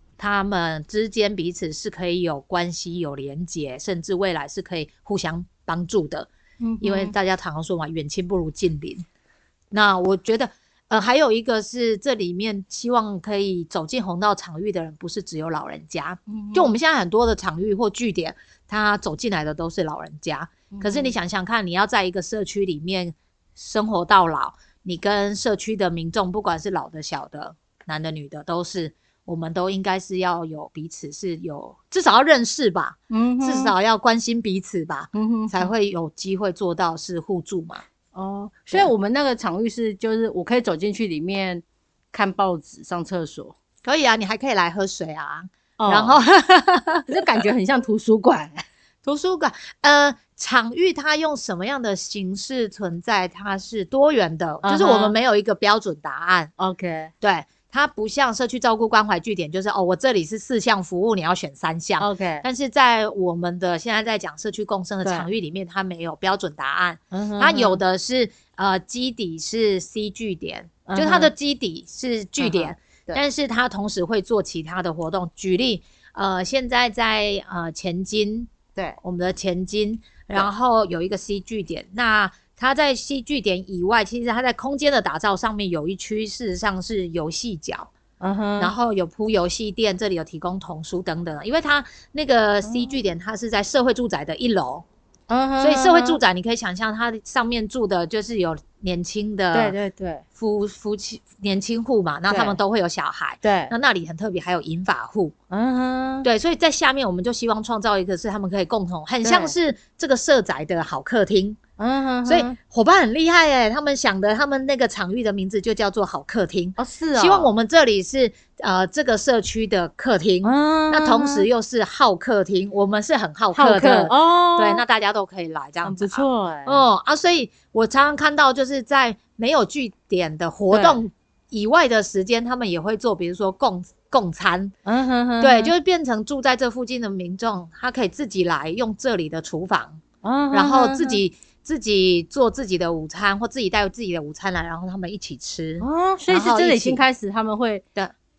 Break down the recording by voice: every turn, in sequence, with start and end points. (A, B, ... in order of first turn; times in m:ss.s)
0:00.2-0:06.3 A
0:06.6-0:07.1 B
0:06.8-0:09.0 A
0:09.7-0:37.8 A
0:16.3-0:16.7 B
0:20.7-0:21.1 B
0:33.1-0:33.7 B
0:35.1-0:35.7 B
0:38.1-0:43.6 B
0:43.8-0:47.1 A
0:45.8-0:46.2 B
0:47.1-0:48.6 B
0:49.0-0:56.5 A
0:54.6-0:55.2 B
0:56.6-0:57.1 B
0:57.2-1:27.9 A
1:02.0-1:02.4 B
1:07.1-1:07.8 B
1:10.8-1:11.3 B
1:12.4-1:13.2 B
1:28.2-1:28.7 B
1:28.6-1:34.8 A
1:32.6-1:32.9 B
1:35.3-1:36.2 B
1:35.6-1:39.8 A
1:39.5-1:40.2 B
1:40.4-1:45.3 A
1:42.3-1:42.6 B
1:43.4-1:43.7 B
1:45.5-1:46.3 B
1:46.2-1:51.6 A
1:49.2-1:49.5 B
1:51.8-1:52.6 B
1:52.2-2:14.7 A
1:56.8-1:57.5 B
2:00.4-2:01.5 B
2:03.5-2:04.8 B
2:05.8-2:06.8 B
2:10.7-2:11.0 B
2:14.8-2:15.7 B
2:15.4-2:27.0 A
2:20.2-2:21.2 B
2:25.8-2:27.8 B